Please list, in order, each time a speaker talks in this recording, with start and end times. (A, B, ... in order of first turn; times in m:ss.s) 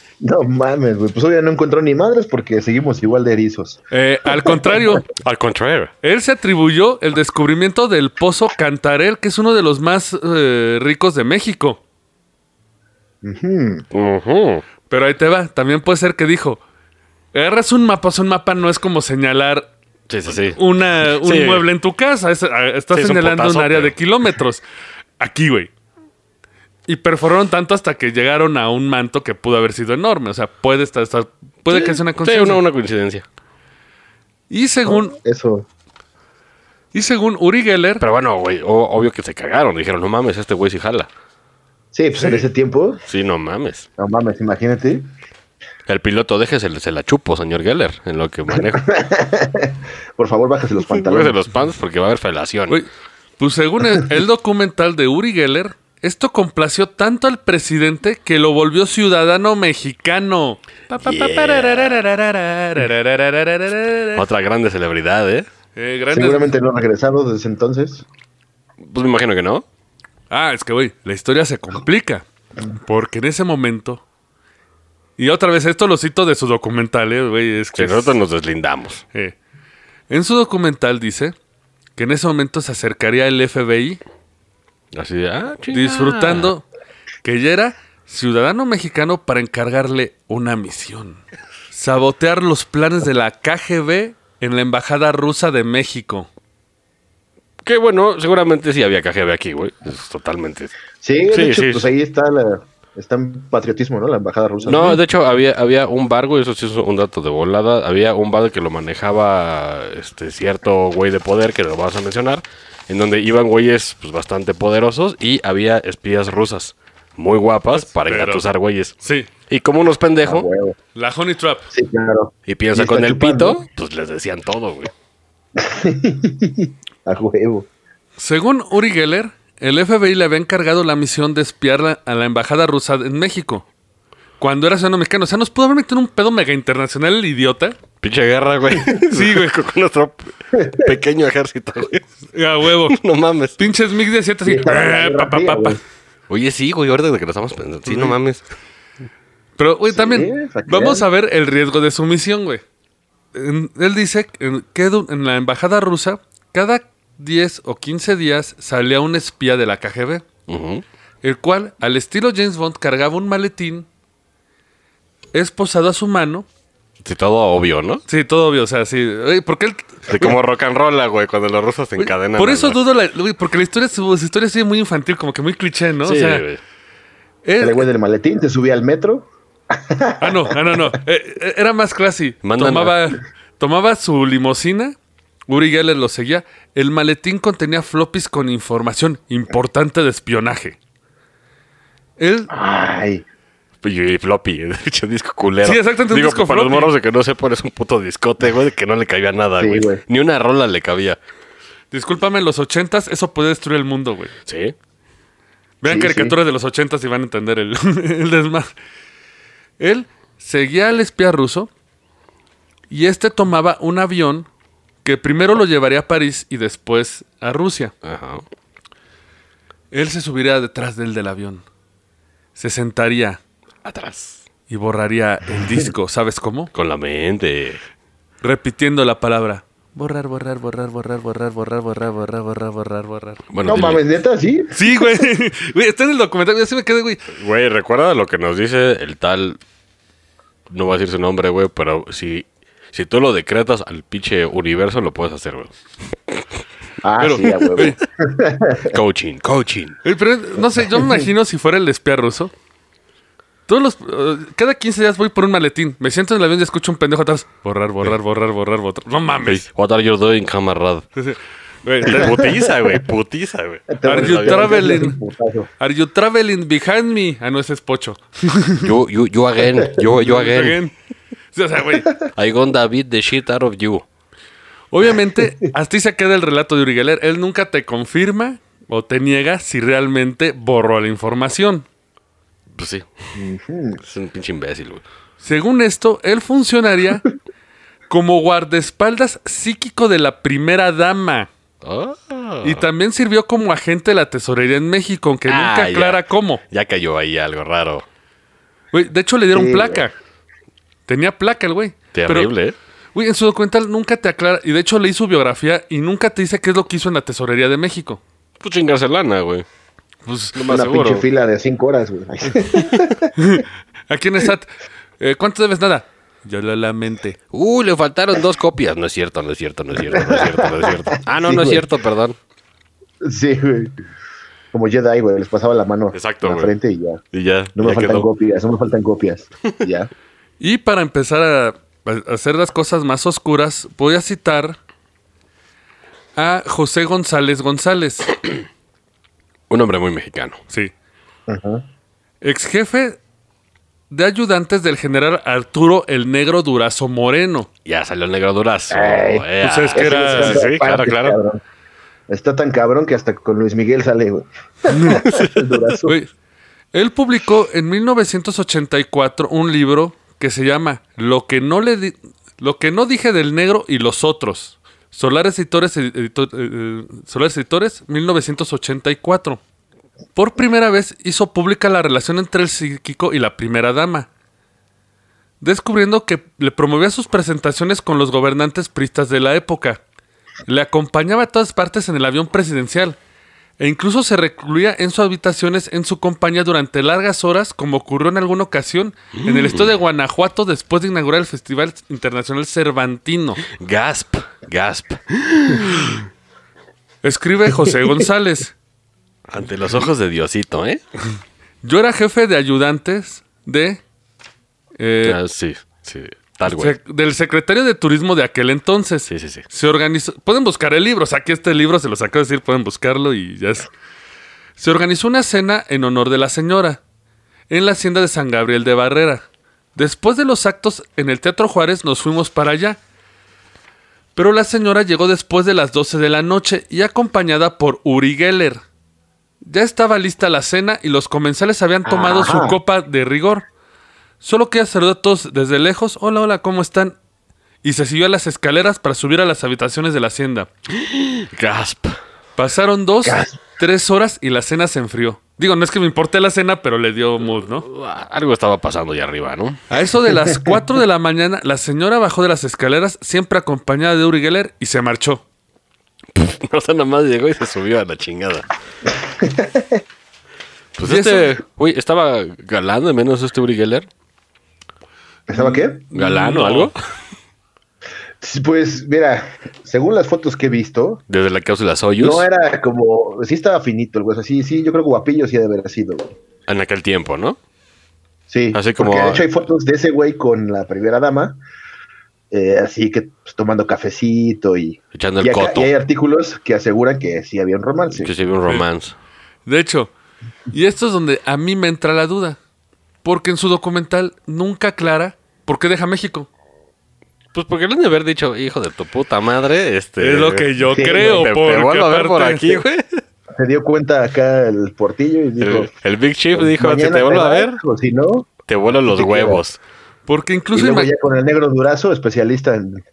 0:00.2-0:03.8 A
0:03.9-0:05.1 B
0:05.2-0:05.9 C
0:06.0-0:11.8 B
0:13.2-0:13.8 A
0:13.9-0:14.6 C
0:14.9-0:16.6 B
0:17.3-0:19.7 B
0:20.1-0:20.6 C
0:20.5-0:24.6 B
0:21.2-0:21.7 C
0:22.9-0:23.9 C
0:25.2-0:25.7 B
0:26.9-0:32.6 B
0:31.7-0:33.2 C
0:34.5-0:35.2 B
0:34.9-0:35.7 A
0:36.9-0:38.0 B
0:38.0-0:41.1 C
0:41.9-0:43.0 A
0:43.1-0:43.9 C
0:44.0-0:45.1 A
0:45.9-0:48.9 C
0:48.6-0:51.4 A
0:50.9-0:52.8 C
0:53.4-1:04.2 B
1:01.0-1:02.0 C
1:04.2-1:05.5 C
1:05.8-1:06.5 B
1:06.1-1:08.0 A
1:08.8-1:09.6 C
1:10.3-1:12.2 B
1:12.8-1:14.0 B
1:15.2-1:18.2 B
1:17.8-1:19.0 C
1:20.1-1:21.4 B
1:22.0-1:24.0 B
1:24.9-1:26.5 C
1:25.7-1:26.6 B
1:27.2-1:36.3 B
1:37.6-1:40.7 C
1:41.0-1:45.0 A
1:41.3-1:41.9 C
1:44.6-1:59.0 C
1:57.7-1:58.4 B
1:59.0-1:59.3 B
1:59.5-2:00.5 C
2:00.2-2:00.8 A
2:01.0-2:01.7 B
2:01.7-2:03.6 A
2:02.5-2:04.9 C
2:05.6-2:07.7 A
2:08.2-2:13.7 B
2:14.4-2:17.8 B
2:18.0-2:22.0 C
2:19.0-2:19.5 B
2:20.6-2:20.9 A
2:22.3-2:23.0 B
2:22.9-2:23.6 C
2:23.6-2:25.8 B
2:24.4-2:25.8 A
2:26.3-2:28.4 C
2:27.9-2:28.2 B
2:29.6-2:32.6 B
2:29.9-2:31.0 A
2:33.3-2:40.3 B
2:40.5-2:40.8 C
2:41.2-2:43.9 B
2:45.3-2:46.5 B
2:47.0-2:48.0 C
2:48.1-2:50.4 B
2:50.1-2:52.8 C
2:52.0-2:56.4 B
2:56.0-2:56.6 C
2:57.4-2:57.9 B
2:57.6-3:00.6 A
3:00.2-3:05.0 B
3:02.4-3:03.0 C
3:05.5-3:10.8 B
3:12.2-3:12.5 B
3:12.5-3:13.2 A
3:13.8-3:21.2 C
3:15.6-3:16.9 B
3:19.6-3:20.0 A
3:21.9-3:24.3 B
3:24.5-3:24.7 C
3:25.8-3:28.7 B
3:25.8-3:26.4 A
3:29.8-3:31.7 B
3:32.9-3:34.5 B
3:35.0-3:37.9 B
3:38.0-3:38.4 C
3:39.9-3:41.6 B
3:42.6-3:43.4 B
3:43.8-3:44.4 C
3:44.7-3:46.7 B
3:46.7-3:47.8 C
3:48.4-3:53.4 B
3:53.5-3:54.0 C
3:53.6-3:55.2 A
3:54.7-3:57.2 B
3:57.3-3:59.6 C
4:00.7-4:05.8 C
4:07.0-4:09.0 A
4:07.2-4:08.0 B
4:08.9-4:10.0 C
4:10.0-4:12.5 B
4:10.8-4:11.3 A
4:13.7-4:19.6 B
4:19.4-4:21.1 C
4:21.2-4:22.5 B
4:22.0-4:24.9 C
4:22.2-4:22.9 A
4:23.9-4:25.7 A
4:24.0-4:25.2 B
4:25.8-4:28.9 B
4:28.8-4:30.8 C
4:30.2-4:30.9 B
4:31.5-4:32.1 B
4:32.3-4:34.0 C
4:34.9-4:41.9 B
4:42.8-4:43.1 C
4:43.4-4:44.0 A
4:44.0-4:45.0 C
4:45.4-4:47.2 B
4:48.1-4:51.5 B
4:51.8-4:52.8 C
4:52.6-4:56.6 B
4:55.5-4:58.0 C
4:58.9-5:00.1 B
4:59.5-5:00.0 A
5:01.1-5:02.5 B
5:02.1-5:02.8 C
5:03.1-5:08.2 B
5:08.6-5:09.7 C
5:10.3-5:10.6 B
5:10.5-5:11.2 C
5:10.7-5:13.3 A
5:13.4-5:17.4 B
5:17.5-5:22.4 C
5:20.1-5:21.8 A
5:23.2-5:23.9 A
5:24.7-5:27.2 A
5:26.1-5:26.7 C
5:27.3-5:28.3 C
5:27.8-5:30.1 A
5:30.6-5:34.8 B
5:36.4-5:38.3 B
5:39.7-5:40.6 C
5:41.5-5:41.8 A
5:42.4-5:43.2 B
5:44.1-5:47.7 B
5:47.9-5:51.4 C
5:48.9-5:51.6 A
5:49.6-5:50.6 B
5:52.3-5:56.2 A
5:54.9-5:55.3 B
5:55.2-5:55.6 C
5:56.9-6:09.6 B
6:10.4-6:14.3 B
6:15.6-6:20.0 B
6:20.7-6:23.2 B
6:23.8-6:33.6 B
6:29.4-6:29.9 C
6:33.7-6:36.3 C
6:37.2-6:38.7 B
6:39.5-6:41.0 C
6:41.8-6:44.0 B
6:45.0-6:45.4 B
6:45.2-6:47.0 C
6:46.6-6:53.9 B
6:49.3-6:49.6 C
6:54.8-6:57.0 B
6:57.7-6:59.4 B
7:00.0-7:03.0 B
7:04.4-7:08.8 B
7:09.6-7:13.6 B
7:12.1-7:12.8 A
7:14.4-7:17.2 B
7:17.8-7:20.7 B
7:20.9-7:22.2 C
7:22.6-7:27.9 B
7:23.2-7:23.6 A
7:27.8-7:29.8 C
7:29.9-7:35.4 B
7:30.5-7:30.8 A
7:36.3-7:38.7 C
7:39.2-7:40.0 A
7:41.0-7:44.1 C
7:41.0-7:41.6 B
7:45.5-7:46.0 A
7:45.5-7:46.9 B
7:46.1-7:47.0 C
7:48.4-7:51.2 A
7:51.3-7:52.5 C
7:52.2-7:56.3 A
7:56.7-7:57.6 C
7:58.5-8:01.6 A
7:58.7-7:59.4 C
8:02.5-8:08.3 A
8:05.1-8:05.9 C
8:08.2-8:09.1 C
8:09.7-8:10.1 B
8:10.7-8:12.6 B
8:13.2-8:16.5 B
8:17.5-8:23.2 C
8:20.2-8:22.8 B
8:20.9-8:21.4 A
8:23.5-8:25.9 A
8:25.6-8:27.8 C
8:26.6-8:28.5 A
8:28.7-8:29.8 C
8:29.1-8:29.6 A
8:30.3-8:31.1 B
8:30.7-8:33.0 A